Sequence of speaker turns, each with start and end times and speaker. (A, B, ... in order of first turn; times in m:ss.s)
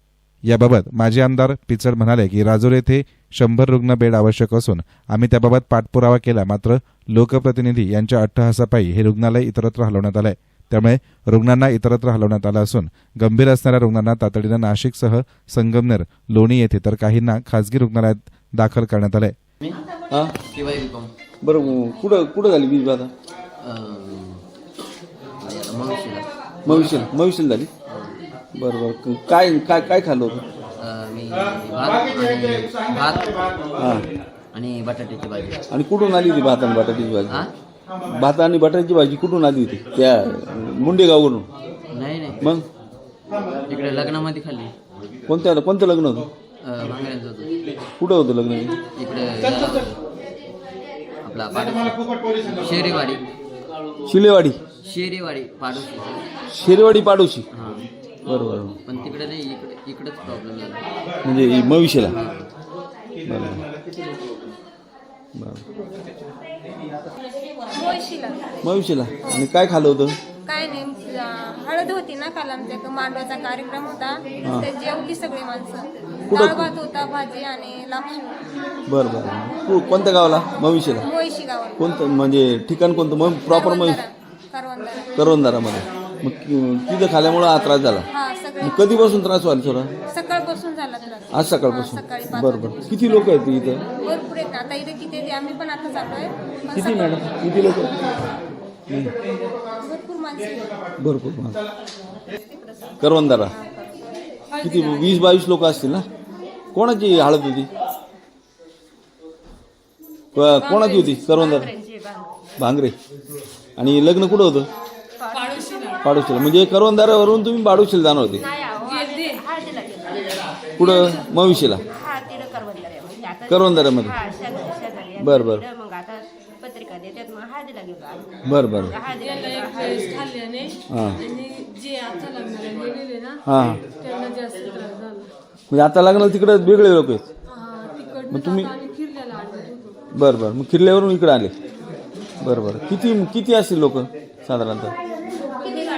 0:00.5-0:19.3 A
0:20.4-0:21.1 B
0:21.4-0:23.1 C
0:23.6-0:24.4 B
0:25.4-0:27.1 B
0:26.6-0:27.7 C
0:27.9-0:28.2 B
0:28.6-0:30.4 C
0:30.8-0:33.7 B
0:33.8-0:34.0 C
0:34.5-0:35.6 B
0:35.7-0:37.5 C
0:38.0-0:41.5 C
0:41.9-0:42.4 B
0:42.4-0:42.6 C
0:43.7-0:44.7 B
0:45.3-0:46.3 C
0:46.6-0:47.6 B
0:48.0-0:48.8 C
0:48.9-0:50.0 B
0:51.2-0:53.3 B
0:54.0-0:54.6 C
0:54.8-0:56.3 B
0:56.5-0:57.5 C
0:57.5-0:57.8 B
0:58.3-0:58.8 C
0:58.8-1:00.8 B
1:01.2-1:02.2 C
1:02.0-1:02.5 B
1:03.2-1:03.6 C
1:05.4-1:05.6 C
1:07.7-1:08.4 D
1:08.6-1:10.2 C
1:10.4-1:18.4 D
1:16.3-1:16.7 C
1:18.9-1:21.0 C
1:21.0-1:21.9 D
1:21.8-1:24.0 C
1:23.5-1:25.1 D
1:25.2-1:28.0 C
1:28.1-1:29.2 D
1:28.6-1:29.9 C
1:30.1-1:33.3 D
1:31.3-1:33.8 C
1:34.0-1:37.7 D
1:36.7-1:38.2 C
1:38.9-1:39.1 C
1:39.8-1:40.7 D
1:41.0-1:41.6 C
1:42.3-1:43.0 D
1:42.8-1:43.3 E
1:43.0-1:43.6 C
1:44.6-1:46.1 C
1:46.7-1:47.7 C
1:50.3-1:51.7 C
1:50.4-1:51.6 D
1:51.6-1:52.3 E
1:52.6-1:53.0 C
1:53.8-1:54.7 C
1:55.3-1:56.0 F
1:56.0-1:58.4 C
1:58.4-2:00.4 E
1:58.8-1:59.4 F
2:00.8-2:01.8 C
2:01.9-2:08.2 E
2:03.5-2:04.2 C
2:05.2-2:05.6 C
2:08.4-2:09.0 C
2:08.9-2:09.6 E
2:09.1-2:13.4 F
2:10.9-2:11.2 C
2:13.4-2:13.8 C
2:13.9-2:15.3 F
2:15.7-2:17.3 C
2:17.5-2:20.0 F
2:18.3-2:18.7 C
2:20.1-2:21.6 C
2:22.4-2:24.9 C
2:25.6-2:25.9 F